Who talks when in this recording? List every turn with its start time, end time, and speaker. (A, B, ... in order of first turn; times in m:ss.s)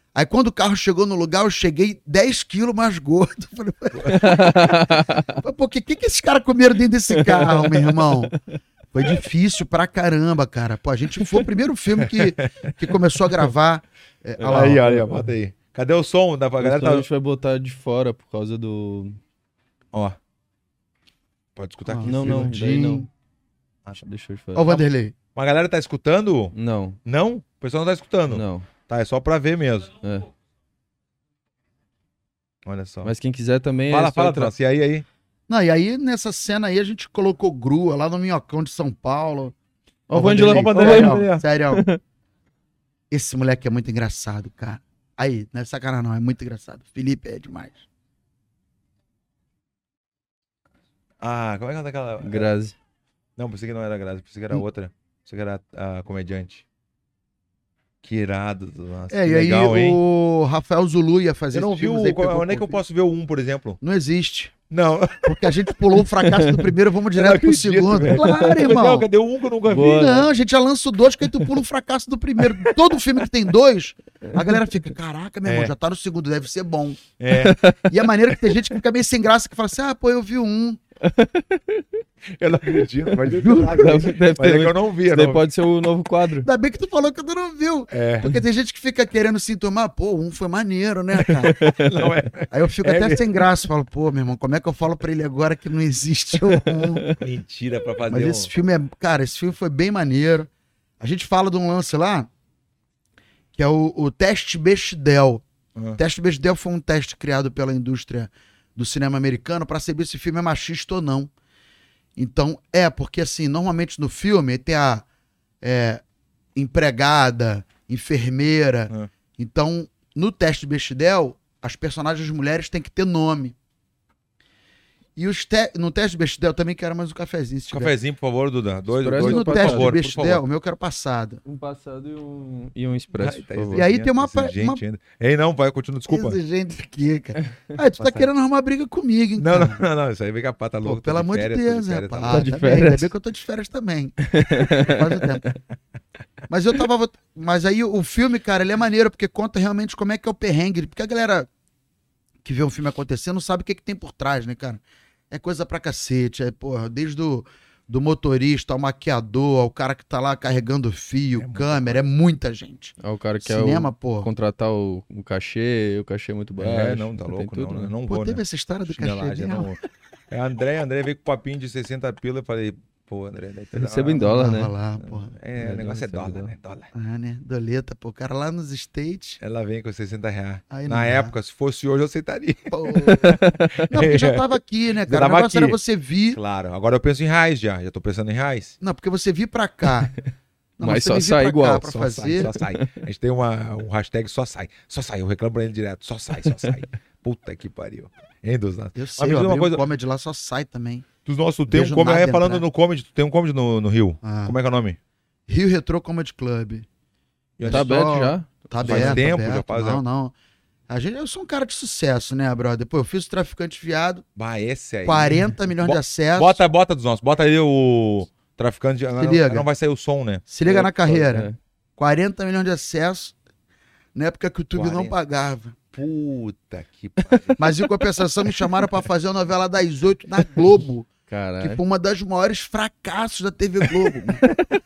0:00.2-0:04.6 A
0:04.1-0:05.4 B
0:05.4-0:08.3 A
0:07.1-0:08.0 B
0:08.9-0:14.8 A
0:12.0-0:12.7 C
0:14.4-0:15.3 B
0:14.4-0:17.1 C
0:16.6-0:19.2 B
0:19.9-0:20.2 C
0:21.6-0:22.5 C
0:21.9-0:23.1 A
0:22.0-0:23.1 B
0:24.0-0:24.8 B
0:24.6-0:25.2 A
0:25.4-0:30.0 C
0:26.5-0:27.0 B
0:28.3-0:28.7 B
0:30.0-0:30.3 B
0:32.7-0:33.1 C
0:33.0-0:34.5 B
0:33.9-0:35.1 C
0:35.5-0:39.6 A
0:40.1-0:42.0 B
0:40.1-0:41.8 A
0:40.2-0:41.4 C
0:43.1-0:47.8 A
0:51.2-0:52.5 C
0:52.2-0:52.8 B
0:53.4-0:56.6 C
0:58.0-1:00.0 C
0:59.1-1:02.8 A
1:01.5-1:03.8 C
1:03.8-1:04.6 A
1:04.7-1:05.7 C
1:05.2-1:09.1 A
1:07.2-1:10.2 C
1:08.2-1:08.5 B
1:09.7-1:17.1 A
1:09.7-1:10.2 B
1:15.4-1:15.7 C
1:17.2-1:17.6 C
1:17.4-1:17.8 B
1:17.9-1:20.8 A
1:21.0-1:21.9 B
1:22.4-1:25.4 C
1:23.3-1:24.0 A
1:23.5-1:26.5 B
1:26.4-1:31.6 A
1:27.9-1:28.4 C
1:31.5-1:31.9 B
1:31.7-1:33.4 C
1:32.5-1:37.1 A
1:37.2-1:38.5 C
1:38.1-1:40.5 A
1:41.0-1:42.3 A
1:43.6-1:45.4 A
1:46.0-1:51.3 A
1:52.2-1:55.0 A
1:55.6-1:56.0 A
1:56.6-2:03.6 A
2:05.2-2:07.9 A
2:07.7-2:10.4 C
2:09.0-2:09.9 B
2:09.2-2:11.4 A
2:11.4-2:13.8 B
2:13.2-2:16.4 C
2:13.7-2:14.8 A
2:16.1-2:19.8 A
2:19.4-2:22.5 C
2:20.8-2:25.4 A
2:22.3-2:23.1 B
2:24.4-2:25.6 B
2:26.5-2:31.5 A
2:32.4-2:44.3 A
2:41.4-2:42.0 C
2:43.0-2:47.9 B
2:46.6-2:54.4 C
2:48.1-2:49.7 A
2:53.7-2:54.7 B
2:54.2-2:55.3 A
2:55.0-2:56.9 C
2:55.6-2:56.5 B
2:56.9-2:59.4 A
2:59.4-3:03.2 C
3:00.7-3:01.3 A
3:02.7-3:03.4 A
3:03.1-3:03.9 B
3:03.7-3:04.5 C
3:03.9-3:06.4 A
3:05.1-3:05.8 C
3:06.3-3:08.8 C
3:08.8-3:10.1 A
3:10.8-3:12.5 A
3:10.8-3:12.9 B
3:11.8-3:19.8 C
3:19.0-3:21.1 A
3:21.2-3:25.0 C
3:21.7-3:22.6 A
3:24.2-3:24.6 A
3:25.5-3:26.9 A
3:27.6-3:27.9 C
3:27.6-3:30.4 A
3:27.7-3:29.2 B
3:28.8-3:30.0 C
3:30.9-3:34.2 A
3:34.4-3:40.5 C
3:35.0-3:36.6 A
3:39.2-3:39.7 A
3:40.5-3:43.4 A
3:40.7-3:41.6 B
3:44.2-3:45.8 A
3:44.8-3:45.1 C
3:45.9-3:47.6 C
3:47.6-3:51.1 A
3:51.3-3:51.8 B
3:51.6-3:54.4 A